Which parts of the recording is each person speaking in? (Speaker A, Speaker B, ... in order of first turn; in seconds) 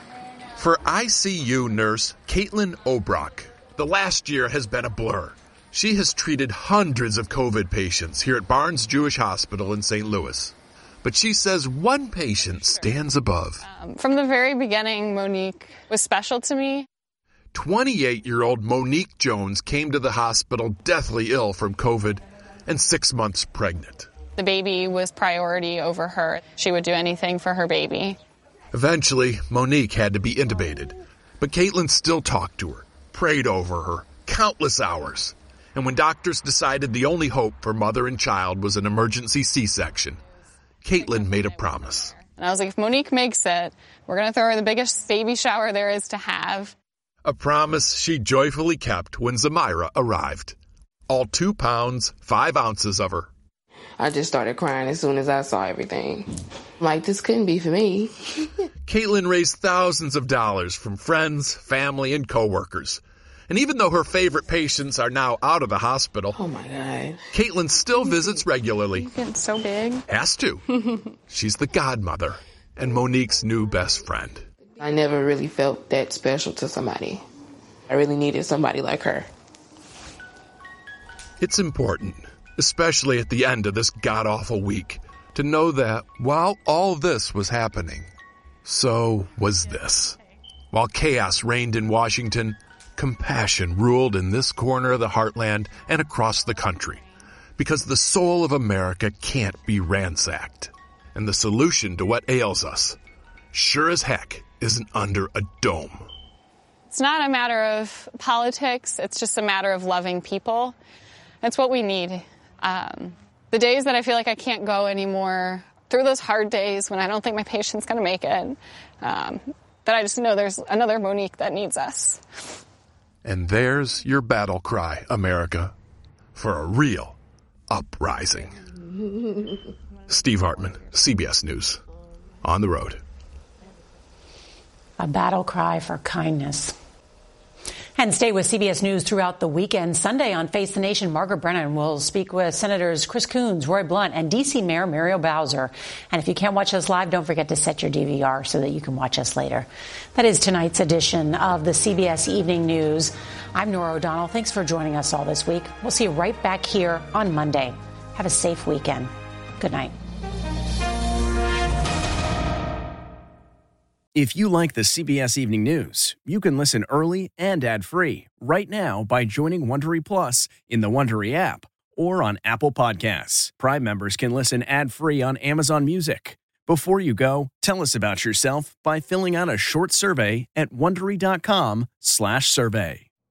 Speaker A: 0.6-13.6, 17.5-24.1, 28.7-40.2, 40.8-42.2, 47.2-50.5, 51.1-53.3, 58.9-66.4, 67.3-69.1, 70.1-70.6, 71.3-74.4, 81.4-88.1, 88.6-90.2, 90.7-97.0, 97.6-103.0, 103.5-106.1, 123.2-125.7, 126.3-127.2, 127.7-128.6, 130.1-131.8, 132.4-133.0
Speaker B: 13.6-16.9, 24.4-28.2, 42.3-46.7, 69.0-70.0, 106.9-110.8, 111.4-122.2
Speaker C: 54.0-58.2, 66.3-67.3, 74.8-77.2, 77.9-79.3
Speaker D: 135.0-136.7, 138.0-159.9
Speaker E: 164.1-183.1